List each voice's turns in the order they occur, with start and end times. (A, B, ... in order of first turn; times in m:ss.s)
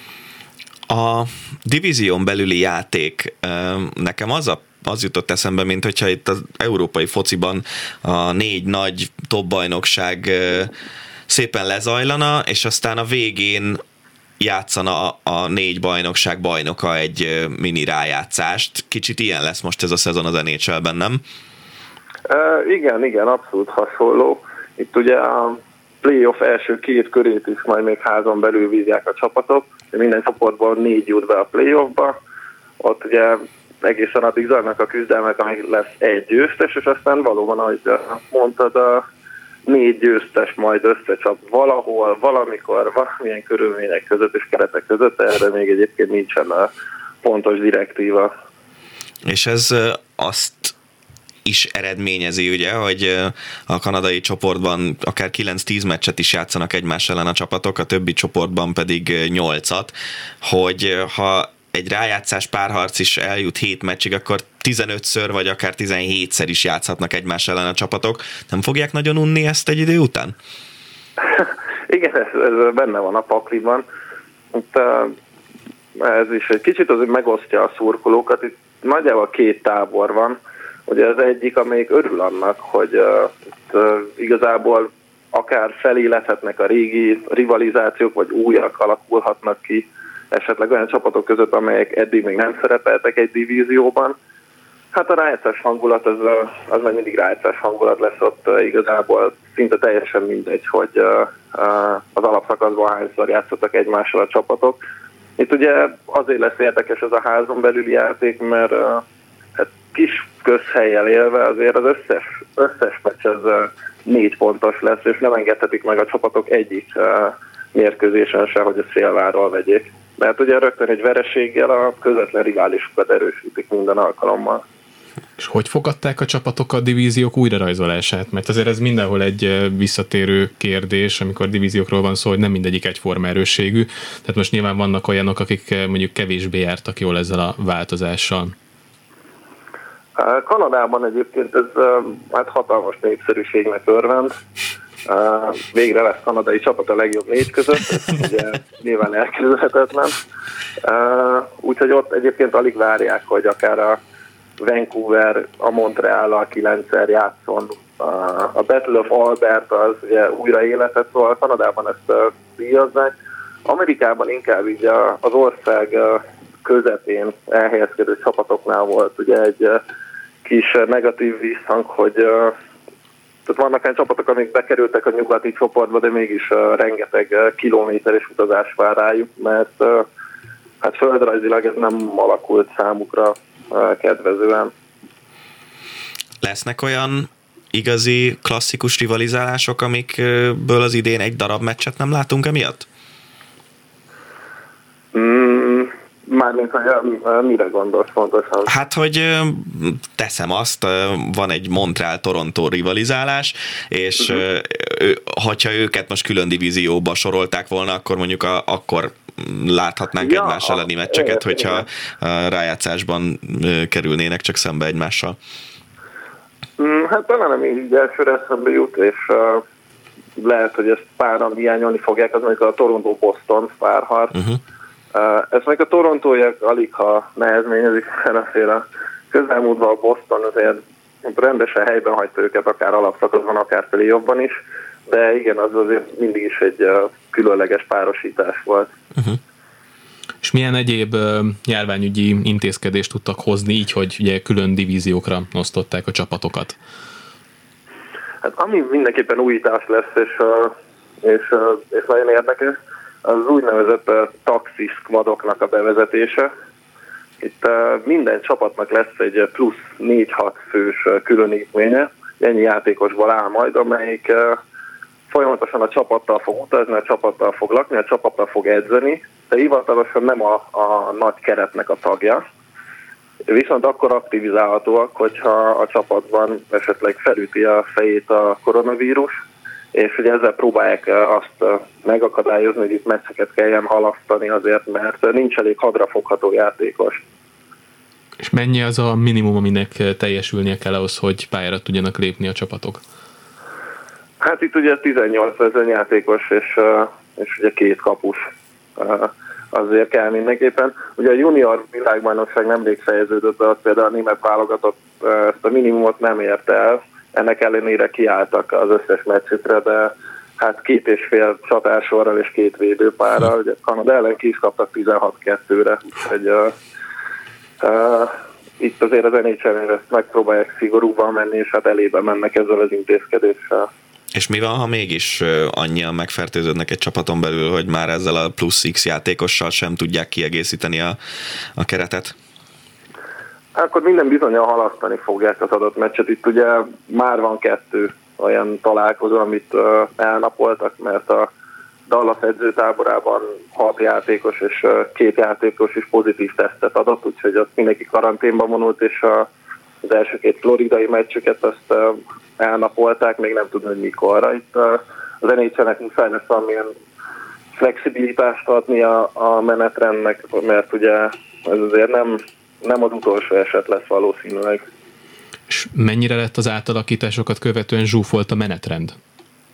0:00.9-0:10.7 A
0:11.3-0:13.8 A
0:14.4-0:21.2 A
0:22.3-0:32.1 B
0:32.8-0:39.0 B
0:39.7-0:46.7 B
0:47.2-0:48.3 B
0:49.2-0:50.7 A
0:51.4-1:10.3 A
1:11.2-1:13.8 B
1:14.5-1:15.1 B
1:16.0-1:34.2 B
1:34.9-1:44.8 B
1:45.4-1:49.0 B
1:49.6-2:04.6 B
2:05.4-2:18.5 C
2:20.2-2:24.4 B
2:25.0-2:30.2 B
2:30.8-2:34.0 B
2:34.6-2:43.1 B
2:43.6-2:49.8 B
2:50.4-2:52.5 B
2:53.4-3:00.0 B
3:00.8-3:04.7 B
3:06.4-3:12.8 A
3:15.1-3:18.7 B
3:18.6-3:35.4 A
3:30.2-3:31.8 B
3:36.8-3:39.6 B
3:40.4-3:44.4 B
3:45.1-3:58.9 B
4:00.4-4:06.8 C
4:08.4-4:16.5 B
4:17.4-4:24.6 B
4:25.3-4:32.4 B
4:33.5-4:39.4 B
4:39.9-4:47.2 B
4:48.4-4:53.0 C
4:54.4-5:16.7 B
5:17.8-5:23.9 B
5:24.3-5:31.2 A
5:31.8-5:32.3 A
5:33.7-5:41.5 B
5:42.1-5:49.5 B
5:50.0-5:56.9 B
5:57.7-6:04.8 B
6:05.7-6:09.2 C